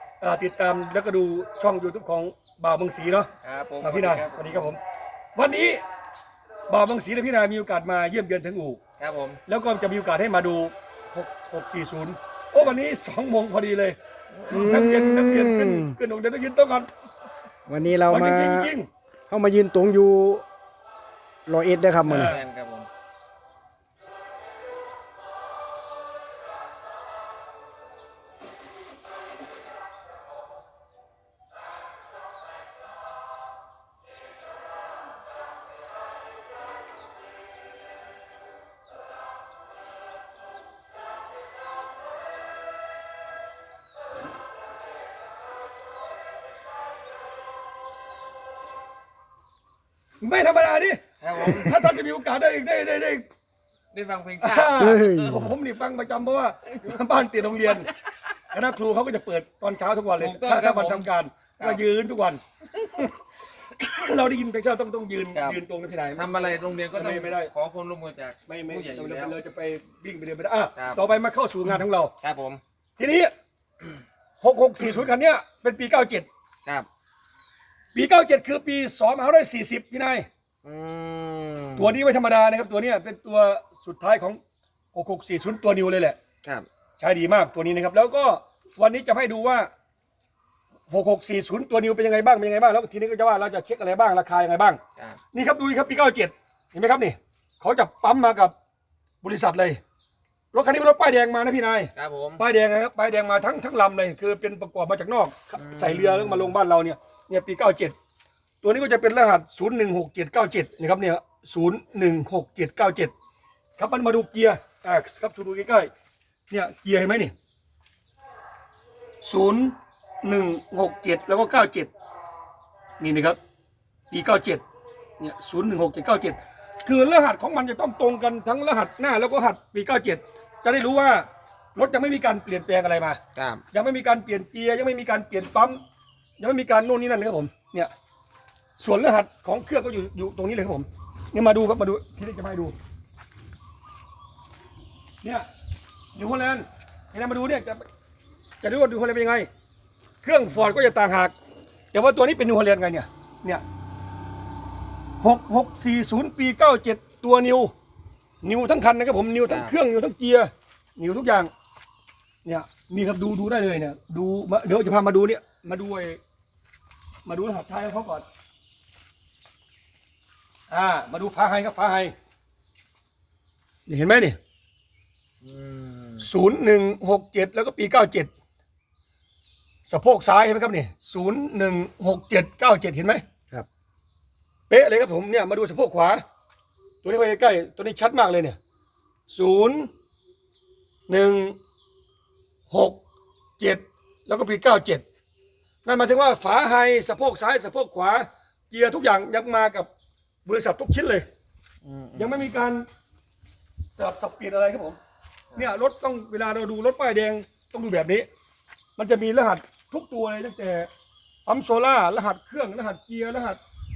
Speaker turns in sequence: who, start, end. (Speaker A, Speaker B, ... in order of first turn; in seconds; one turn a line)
Speaker A: 0.2-3.3
Speaker B: 3.4-4.7
Speaker A: 3.8-4.8
Speaker A: 5.3-5.8
Speaker A: 6.7-8.8
Speaker B: 9.0-9.4
Speaker A: 9.4-14.0
Speaker B: 14.3-14.7
Speaker C: 14.5-15.9
Speaker A: 14.5-16.9
Speaker C: 17.7-18.7
Speaker A: 18.1-18.9
Speaker C: 19.3-20.4
Speaker C: 21.4-22.3
Speaker A: 22.0-22.4
Speaker B: 22.1-22.9
Speaker A: 50.2-53.2
Speaker B: 51.2-52.0
Speaker B: 53.9-55.5
Speaker A: 54.4-57.9
Speaker C: 54.8-55.5
Speaker A: 58.5-63.1
Speaker B: 60.2-61.1
Speaker A: 63.8-67.5
Speaker B: 65.3-65.6
Speaker B: 66.1-69.3
Speaker A: 68.5-72.1
Speaker B: 70.8-71.0
Speaker B: 72.2-72.6
Speaker A: 73.0-73.3
Speaker A: 74.4-76.3
Speaker A: 77.9-80.2
Speaker B: 80.6-81.9
Speaker A: 81.8-84.4
Speaker A: 84.9-86.2
Speaker A: 87.0-89.7
Speaker A: 90.9-94.8
Speaker A: 95.3-98.5
Speaker A: 99.2-99.8
Speaker A: 100.5-108.0
Speaker B: 102.0-102.4
Speaker B: 105.5-106.5
Speaker A: 108.6-113.1
Speaker A: 113.8-115.9
Speaker A: 116.5-117.3
Speaker A: 119.2-121.9
Speaker A: 123.0-123.4
Speaker A: 124.1-124.6
Speaker A: 125.2-133.2
Speaker B: 133.3-133.6
Speaker A: 133.7-135.8
Speaker A: 136.4-137.9
Speaker A: 138.8-142.7
Speaker A: 146.1-147.8
Speaker A: 148.6-149.5
Speaker A: 150.2-151.3
Speaker A: 151.9-153.6
Speaker A: 155.2-157.7
Speaker A: 158.4-161.5
Speaker B: 159.5-159.7
Speaker A: 162.4-166.2
Speaker A: 167.2-168.2
Speaker A: 170.7-172.1
Speaker A: 173.9-174.4
Speaker B: 175.4-176.3
Speaker A: 176.2-178.3
Speaker A: 179.8-183.2
Speaker A: 184.7-186.2
Speaker A: 187.0-188.6
Speaker A: 189.3-189.9
Speaker A: 191.1-191.6
Speaker A: 192.7-193.0
Speaker A: 193.6-195.0
Speaker A: 195.8-199.9
Speaker A: 200.4-201.2
Speaker B: 201.8-202.6
Speaker A: 202.2-202.8
Speaker A: 203.9-205.0
Speaker A: 205.6-208.3
Speaker A: 209.0-210.9
Speaker A: 211.4-213.6